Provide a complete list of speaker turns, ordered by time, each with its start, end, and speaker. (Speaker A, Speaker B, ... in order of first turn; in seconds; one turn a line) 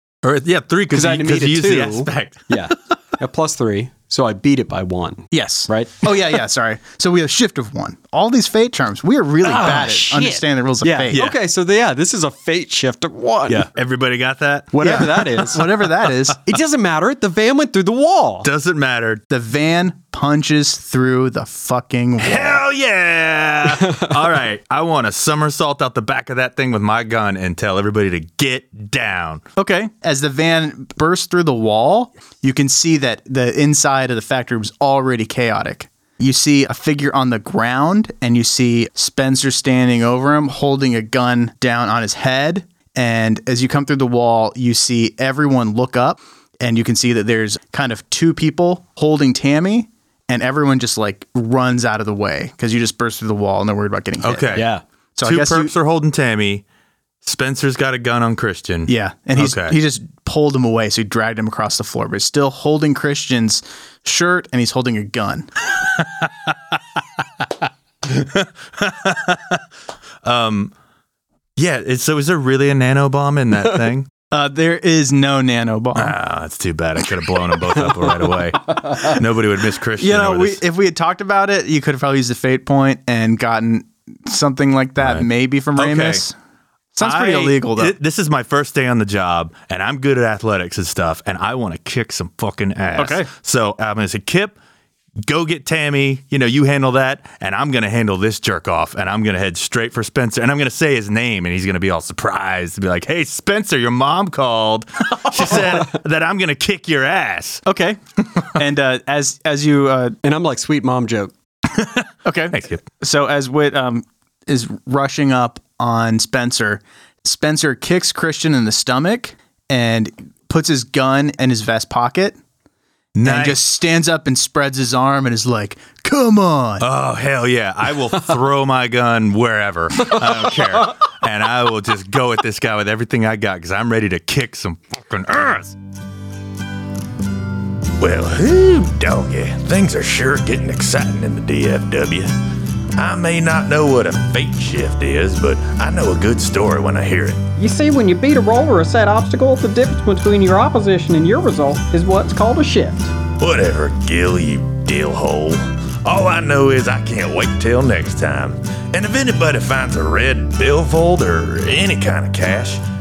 Speaker A: 0.2-2.7
Speaker B: 0.9-6.2
Speaker C: 5.3-11.3
Speaker B: 9.5-13.7
Speaker A: 13.5-15.5
Speaker B: 14.7-15.7
Speaker C: 14.8-16.4
Speaker B: 16.3-18.5
Speaker A: 18.4-19.2
Speaker C: 19.3-22.6
Speaker A: 22.2-29.4
Speaker C: 29.6-55.7
Speaker A: 54.2-54.7
Speaker B: 54.5-54.8
Speaker A: 55.2-56.6
Speaker A: 57.2-59.8
Speaker C: 58.9-65.5
Speaker A: 66.0-66.5
Speaker A: 68.0-69.6
Speaker A: 70.2-70.7
Speaker A: 71.6-74.1
Speaker C: 74.3-76.2
Speaker A: 76.0-80.6
Speaker C: 80.0-86.3
Speaker A: 85.0-86.3
Speaker C: 86.9-88.0
Speaker A: 87.0-94.6
Speaker C: 93.0-93.3
Speaker A: 95.2-107.6
Speaker C: 107.7-108.0
Speaker C: 108.5-110.2
Speaker B: 110.2-111.3
Speaker A: 111.7-112.8
Speaker C: 112.2-122.4
Speaker A: 123.2-123.6
Speaker C: 123.2-126.9
Speaker A: 126.8-135.8
Speaker D: 138.0-142.3
Speaker D: 143.0-147.5
Speaker E: 147.6-153.1
Speaker D: 153.3-155.6
Speaker A: 153.7-155.5
Speaker A: 156.0-158.1
Speaker D: 156.2-162.8
Speaker A: 159.0-159.4
Speaker A: 160.2-160.5